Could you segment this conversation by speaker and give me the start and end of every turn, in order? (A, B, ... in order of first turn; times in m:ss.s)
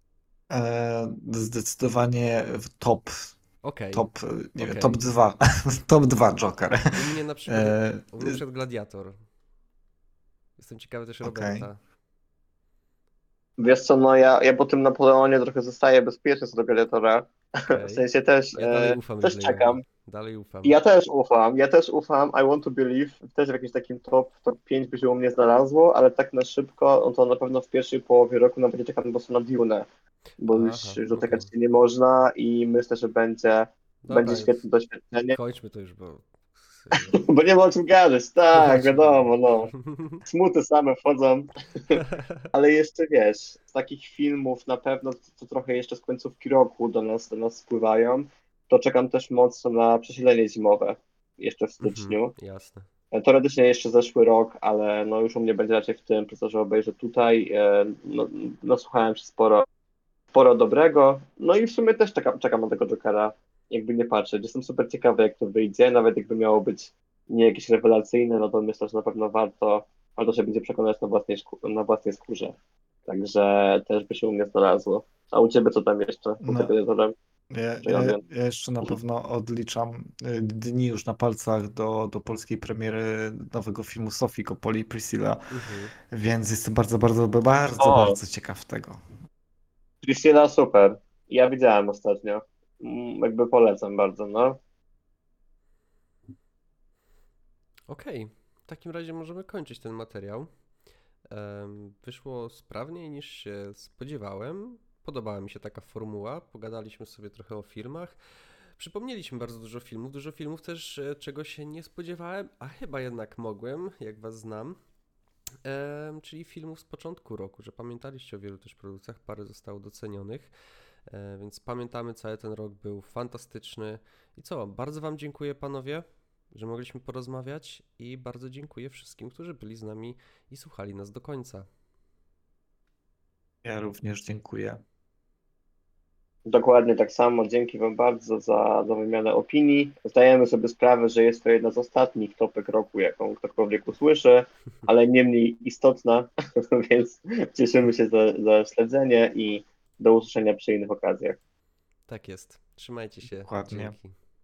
0:00.5-0:03.3 A
0:03.6-0:04.0 B
0:03.9-0:06.9 A
0:04.6-0:05.0 B
0:06.9-0:09.1 B
0:07.5-0:08.4 A
0:10.6-0:11.8 B
0:11.2-0:11.7 A
0:13.6-0:19.8 C
0:17.7-0:20.8 B
0:20.6-0:29.9 C
0:30.4-0:35.4 C
0:30.5-0:31.5 B
0:34.0-0:34.6 B
0:35.2-0:37.2 B
0:36.9-0:39.7 C
0:38.5-0:40.2 B
0:40.2-0:42.0 C
0:42.0-0:42.3 B
0:42.5-0:52.3 C
0:51.8-0:52.9 B
0:53.1-0:59.6 C
1:00.3-1:12.6 C
1:13.1-1:17.1 C
1:16.4-1:16.7 A
1:17.5-1:25.5 A
1:17.8-1:18.2 C
1:25.5-1:25.9 B
1:26.1-1:29.0 A
1:27.8-1:28.2 C
1:30.0-1:34.6 C
1:37.9-1:40.5 B
1:41.3-1:48.2 B
1:48.8-1:54.8 B
1:55.6-2:00.5 B
2:01.1-2:11.6 B
2:13.6-2:14.8 A
2:16.4-2:31.4 C
2:32.1-2:34.1 B
2:33.3-2:34.0 A